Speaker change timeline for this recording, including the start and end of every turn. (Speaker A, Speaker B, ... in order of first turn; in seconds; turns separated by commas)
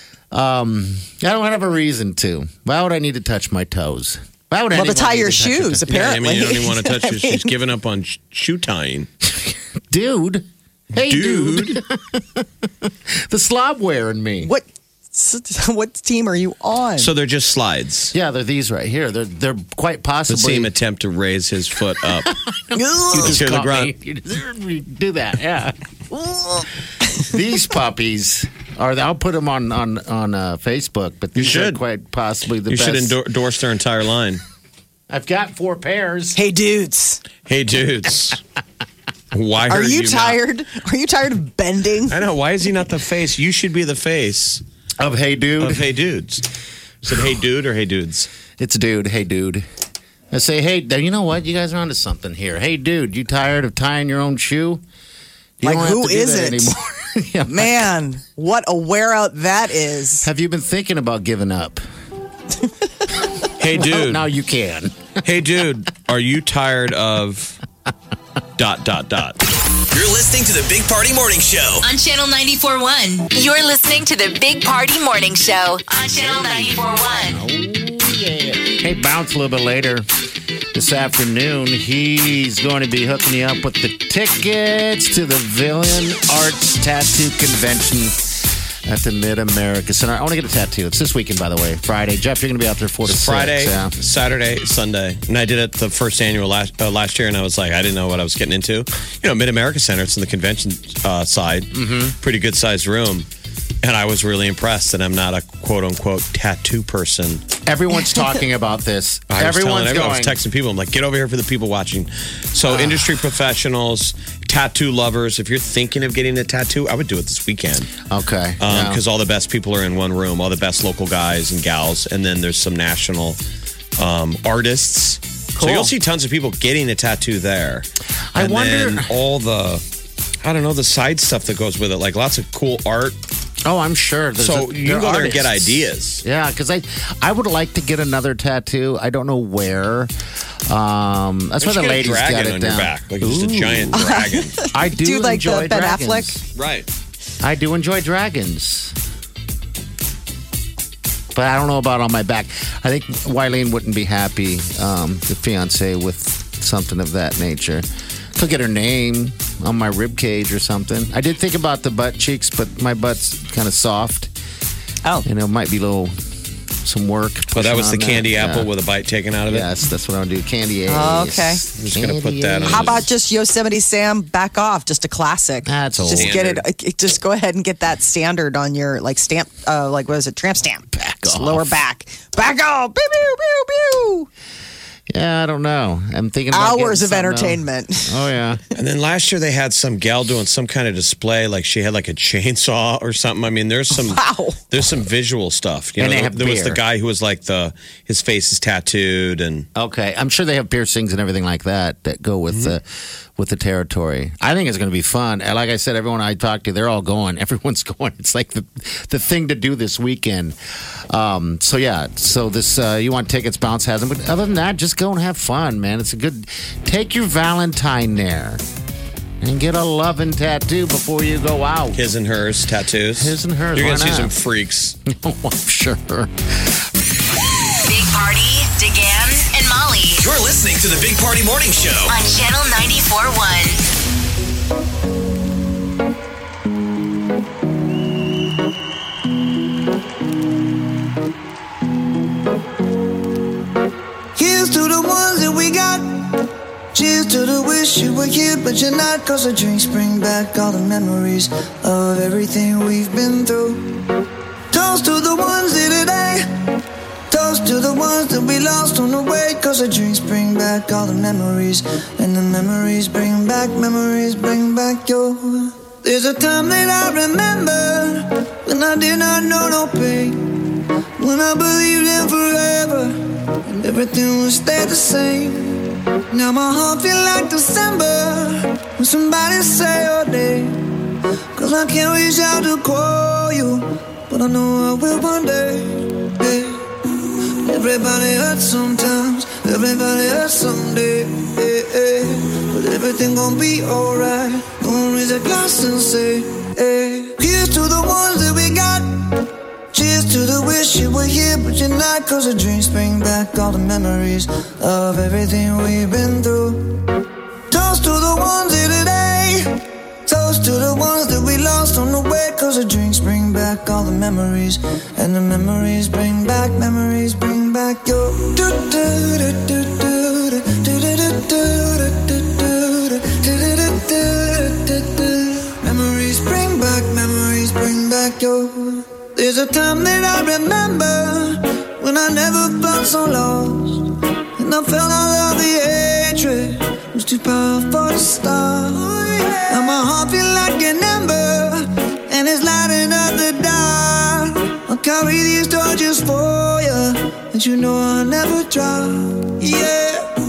Speaker A: 0.3-5.9, Speaker B: 4.7-7.5, Speaker C: 5.9-9.1, Speaker A: 9.3-14.5, Speaker C: 11.0-11.8, Speaker B: 14.4-17.1, Speaker C: 17.0-18.1, Speaker A: 18.1-20.7, Speaker C: 20.3-22.3, Speaker A: 22.2-25.8, Speaker B: 22.8-23.3, Speaker C: 23.1-23.9, Speaker A: 27.2-33.2, Speaker C: 31.4-31.8, Speaker C: 32.7-34.4, Speaker A: 35.1-36.4, Speaker B: 36.4-37.2, Speaker C: 37.5-38.4, Speaker C: 39.3-40.4, Speaker B: 39.7-42.1, Speaker C: 42.1-44.6, Speaker A: 45.0-45.9, Speaker C: 45.6-46.5, Speaker C: 47.0-48.3, Speaker A: 48.6-49.6, Speaker A: 50.3-54.8, Speaker A: 55.6-57.9, Speaker B: 55.6-56.7, Speaker B: 57.5-60.3, Speaker A: 60.2-61.8, Speaker C: 63.6-64.2, Speaker A: 63.7-65.1, Speaker C: 65.2-67.6, Speaker C: 68.6-69.4, Speaker D: 69.9-71.8, Speaker E: 71.8-77.4, Speaker A: 77.3-80.1, Speaker A: 80.7-88.3, Speaker A: 88.9-93.9, Speaker C: 93.1-103.3, Speaker A: 101.7-102.2, Speaker C: 103.8-107.4, Speaker A: 107.7-110.4, Speaker C: 109.3-117.9, Speaker A: 112.7-113.2, Speaker A: 118.1-119.0, Speaker C: 118.6-123.4, Speaker C: 124.0-129.8, Speaker B: 125.6-125.9, Speaker A: 128.3-129.1, Speaker C: 130.4-133.2, Speaker A: 133.7-140.1, Speaker C: 134.4-136.2, Speaker A: 140.7-144.2, Speaker C: 141.6-144.6, Speaker B: 143.9-146.4, Speaker A: 144.7-146.4, Speaker C: 146.6-146.9, Speaker A: 147.4-149.0, Speaker A: 151.3-157.8, Speaker A: 158.4-164.3, Speaker A: 165.2-166.2, Speaker A: 166.8-168.7, Speaker C: 167.6-169.7, Speaker A: 169.5-173.1, Speaker B: 170.9-171.6, Speaker C: 171.8-173.0, Speaker B: 172.7-184.3, Speaker A: 175.7-176.4, Speaker C: 176.1-176.6, Speaker A: 180.9-181.8, Speaker A: 185.1-188.6, Speaker B: 186.5-188.2, Speaker C: 188.8-199.7, Speaker B: 193.9-194.6, Speaker A: 196.0-196.8, Speaker A: 199.8-202.8, Speaker A: 203.4-218.6, Speaker A: 219.4-222.1, Speaker C: 221.9-225.0, Speaker A: 223.2-224.3, Speaker A: 225.1-226.7, Speaker E: 227.8-230.2, Speaker D: 230.2-232.1, Speaker E: 232.1-233.8, Speaker F: 244.4-246.4, Speaker F: 246.9-254.0, Speaker F: 254.7-256.5, Speaker F: 257.3-270.6, Speaker F: 271.2-280.8, Speaker F: 281.6-286.9, Speaker F: 287.6-307.0, Speaker F: 307.7-309.7, Speaker F: 310.3-350.3